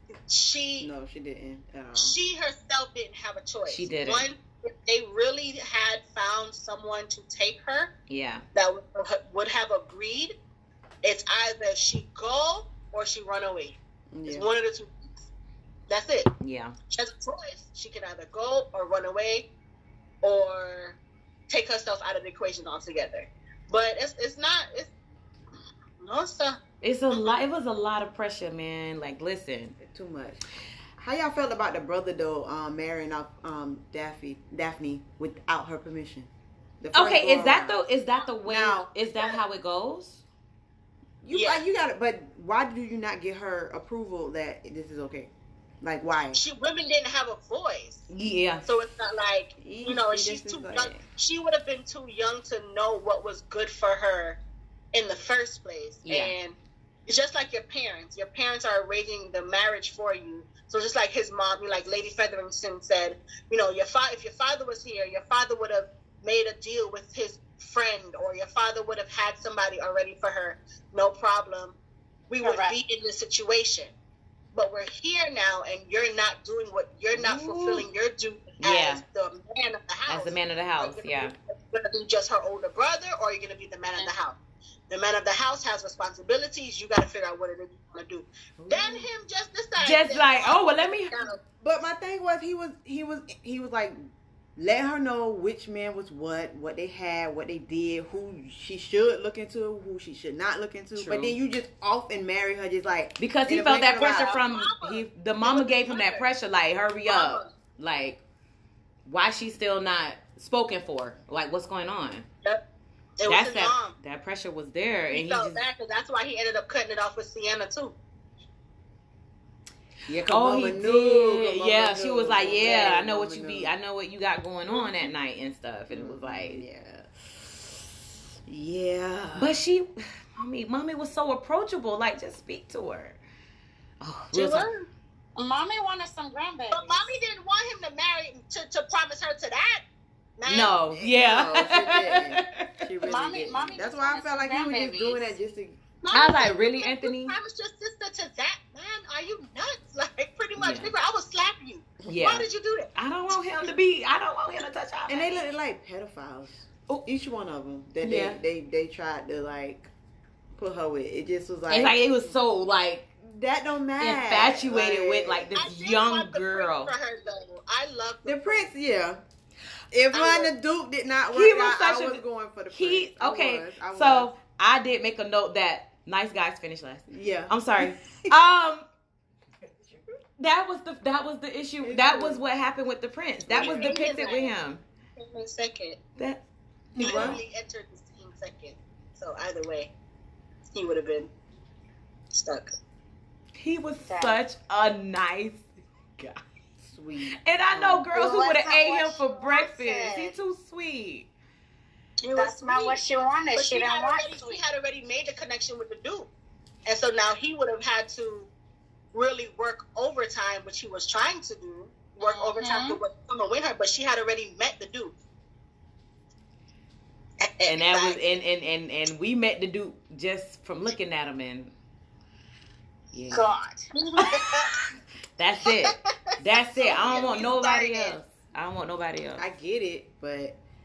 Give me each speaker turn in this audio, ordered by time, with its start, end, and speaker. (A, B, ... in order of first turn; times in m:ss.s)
0:00.3-0:00.9 A
0:00.8-0:02.2 B
0:01.9-0:07.9 A
0:03.7-0:04.3 C
0:08.1-0:08.4 C
0:08.5-0:10.3 A
0:11.0-0:15.2 A
0:14.1-0:14.5 B
0:15.9-0:16.3 A
0:16.4-0:16.8 C
0:16.9-0:19.5 A
0:20.2-0:21.0 A
0:21.5-0:24.9 A
0:26.0-0:26.6 A
0:26.8-0:29.8 C
0:27.1-0:27.4 A
0:29.8-0:30.4 B
0:31.0-0:37.8 B
0:36.9-0:40.2 C
0:38.4-0:38.9 B
0:41.2-0:45.3 B
0:41.3-0:41.6 A
0:45.8-0:46.4 B
0:46.3-0:48.1 A
0:48.1-0:48.6 C
0:48.6-0:54.4 A
0:49.6-0:51.0 B
0:54.9-0:56.6 A
0:56.0-0:56.3 C
0:57.1-1:11.8 A
1:12.3-1:13.9 A
1:12.4-1:12.7 D
1:14.5-1:24.4 A
1:17.1-1:17.8 C
1:18.6-1:19.0 C
1:20.1-1:21.3 C
1:24.9-1:31.4 A
1:28.6-1:29.0 C
1:29.8-1:31.2 C
1:31.6-1:34.0 B
1:34.6-1:44.4 B
1:40.9-1:41.4 C
1:43.2-1:48.2 C
1:43.9-1:46.3 A
1:47.1-1:47.5 A
1:49.0-1:52.3 C
1:53.2-1:54.0 A
1:53.2-1:55.6 C
1:55.1-1:57.9 A
2:00.1-2:03.7 B
2:00.3-2:06.6 C
2:05.9-2:07.1 B
2:08.5-2:09.6 B
2:09.4-2:13.2 C
2:14.0-2:14.7 C
2:14.3-2:14.9 A
2:15.4-2:17.2 D
2:16.7-2:19.8 A
2:20.4-2:20.8 A
2:20.4-2:22.8 C
2:20.9-2:25.8 B
2:23.0-2:25.3 D
2:26.0-2:32.9 A
2:26.1-2:27.4 C
2:30.6-2:30.9 C
2:32.1-2:35.5 C
2:35.1-2:39.9 B
2:38.0-2:38.4 C
2:40.5-2:42.3 B
2:41.7-2:43.1 C
2:43.2-2:45.5 B
2:44.0-2:46.9 C
2:45.5-2:48.7 A
2:48.2-2:49.2 B
2:49.9-2:54.3 B
2:50.1-2:50.5 A
2:51.3-2:58.9 C
2:57.1-2:58.3 B
3:00.4-3:04.8 C
3:01.8-3:02.4 B
3:03.5-3:03.8 B
3:03.5-3:04.6 A
3:05.2-3:06.0 A
3:06.2-3:06.4 C
3:07.0-3:07.4 B
3:07.0-3:09.9 A
3:07.0-3:07.4 C
3:10.7-3:11.3 A
3:12.3-3:12.8 A
3:13.6-3:15.6 C
3:14.1-3:14.3 D
3:16.2-3:16.4 C
3:16.8-3:18.1 B
3:17.4-3:21.3 C
3:18.1-3:20.3 D
3:22.2-3:23.0 A
3:22.3-3:24.6 D
3:23.5-3:26.3 A
3:26.8-3:28.5 A
3:29.1-3:35.1 A
3:32.2-3:33.0 D
3:37.4-3:38.2 A
3:37.6-3:41.7 C
3:43.1-3:43.5 C
3:43.3-3:44.3 D
3:43.9-3:44.8 A
3:45.4-3:49.5 C
3:46.8-3:47.8 A
3:47.1-3:48.1 D
3:49.4-3:50.6 B